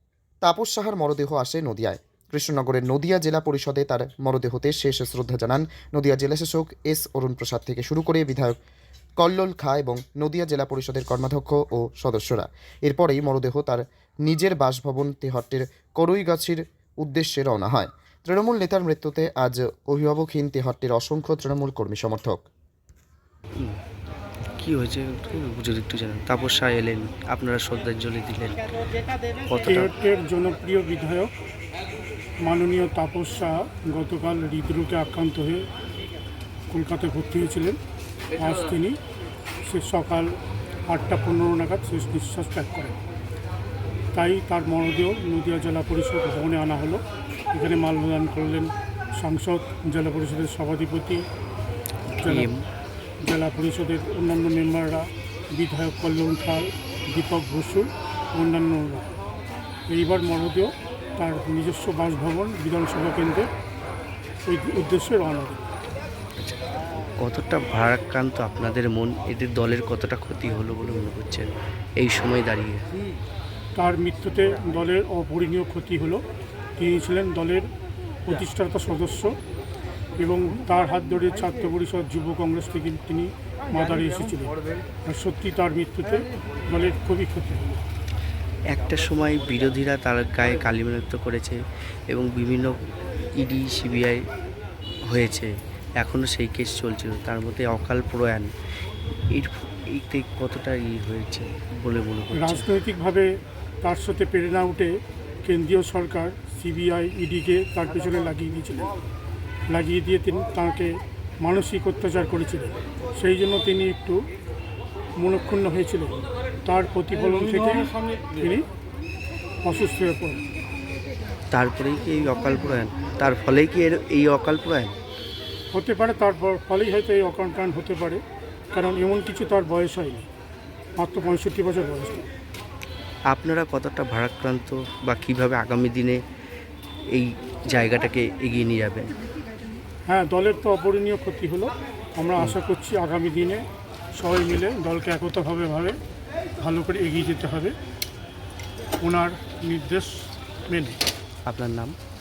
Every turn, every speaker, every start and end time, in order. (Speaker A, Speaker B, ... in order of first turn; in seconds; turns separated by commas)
Speaker A: 0.4-8.6, Speaker A: 9.2-22.4, Speaker B: 24.6-28.6, Speaker B: 29.4-29.9, Speaker C: 29.6-31.3, Speaker C: 32.4-35.7, Speaker C: 36.7-37.8, Speaker C: 38.4-39.0, Speaker C: 39.6-43.0, Speaker C: 44.1-51.2, Speaker C: 52.2-52.5, Speaker B: 52.2-52.6, Speaker C: 53.2-59.1, Speaker C: 59.9-63.5, Speaker C: 64.4-65.7, Speaker B: 67.2-71.5, Speaker B: 72.0-72.8, Speaker C: 73.8-76.2, Speaker C: 76.8-77.7, Speaker C: 78.2-79.3, Speaker C: 80.2-87.8, Speaker B: 88.7-91.6, Speaker B: 92.1-92.8, Speaker B: 93.4-94.2, Speaker B: 95.1-98.5, Speaker B: 99.3-102.7, Speaker C: 102.3-103.3, Speaker C: 103.8-108.9, Speaker C: 109.7-114.2, Speaker C: 115.2-118.7, Speaker C: 119.6-120.4, Speaker B: 121.5-125.0, Speaker C: 125.7-130.3, Speaker C: 131.0-132.3, Speaker B: 133.3-136.2, Speaker B: 137.1-139.2, Speaker C: 140.1-146.0, Speaker C: 146.6-147.7, Speaker C: 149.0-151.0, Speaker B: 151.4-151.9